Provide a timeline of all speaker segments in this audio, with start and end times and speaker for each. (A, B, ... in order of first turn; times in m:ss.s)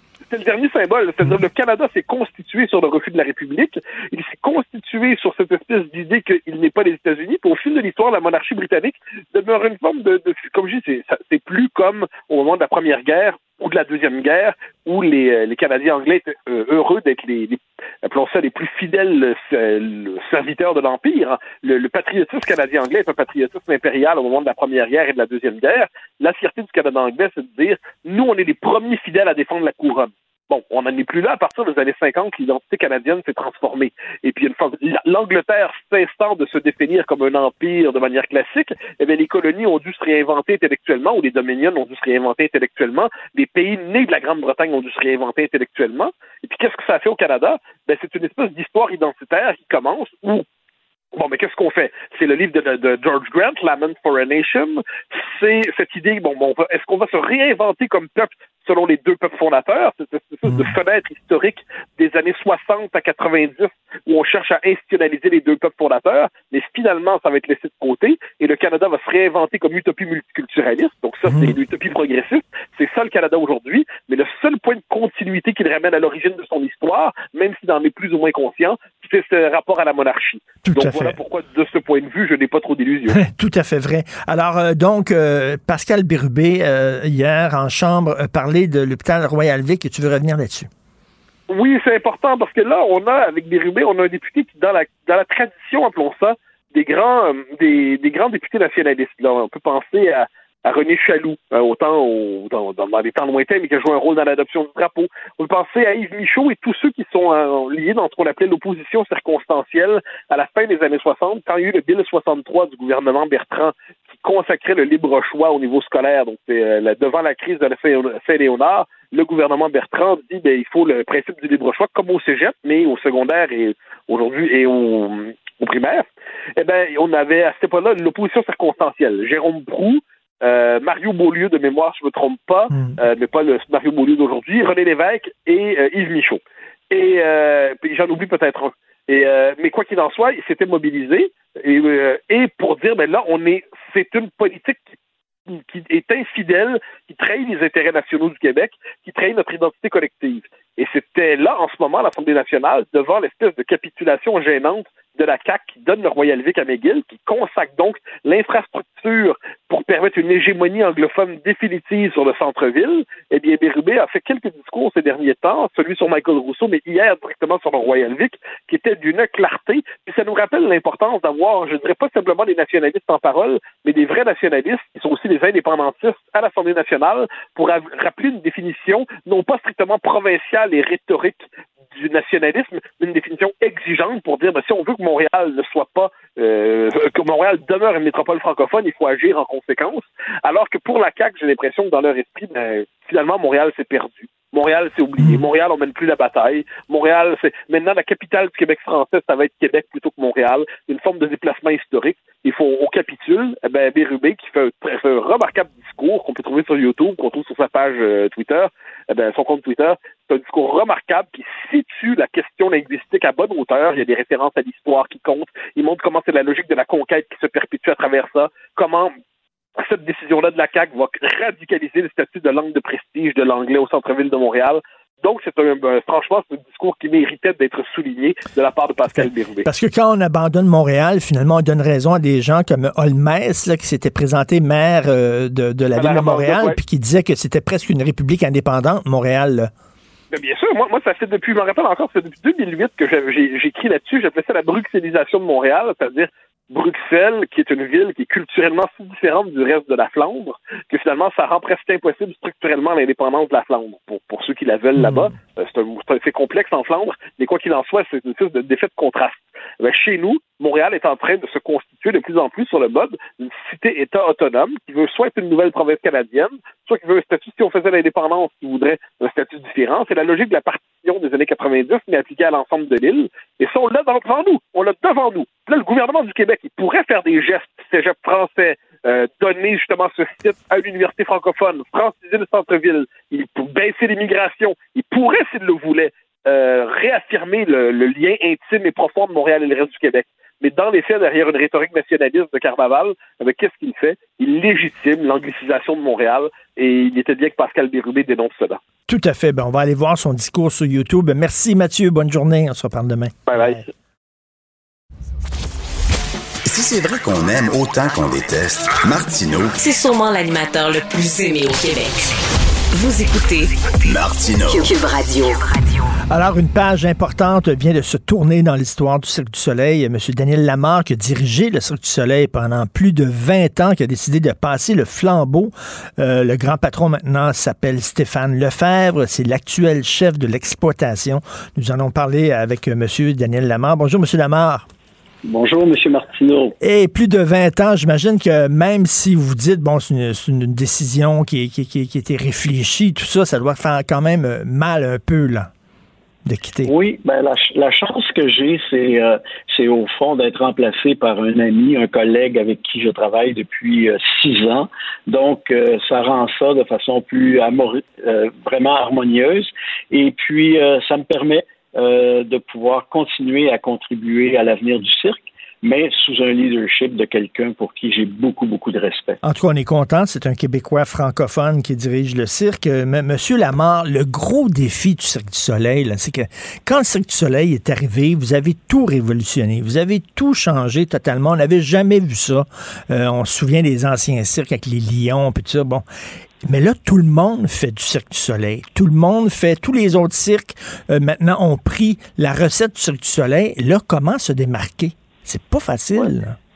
0:00.3-0:50.4 A
0:51.1-1:23.2 A
1:11.3-1:11.6 B
1:20.6-1:21.2 B
1:23.1-1:30.7 B
1:31.5-2:24.9 A
2:12.7-2:13.0 B
2:25.5-3:39.1 A
3:15.2-3:15.4 B
3:39.8-3:49.7 A
3:49.1-3:59.7 B
3:55.9-3:56.8 A
4:00.3-4:58.8 A
4:15.0-4:15.3 B
4:59.1-5:03.8 B
5:03.5-5:03.9 A
5:06.6-5:09.8 C
5:09.8-5:12.3 D
5:12.9-5:13.7 D
5:14.0-5:14.9 C
5:14.7-5:15.8 D
5:16.3-5:34.8 B
5:35.4-5:36.7 E
5:36.8-5:45.7 B
5:46.4-5:46.9 B
5:46.8-6:09.4 E
6:09.4-6:26.0 B
6:26.6-6:36.6 B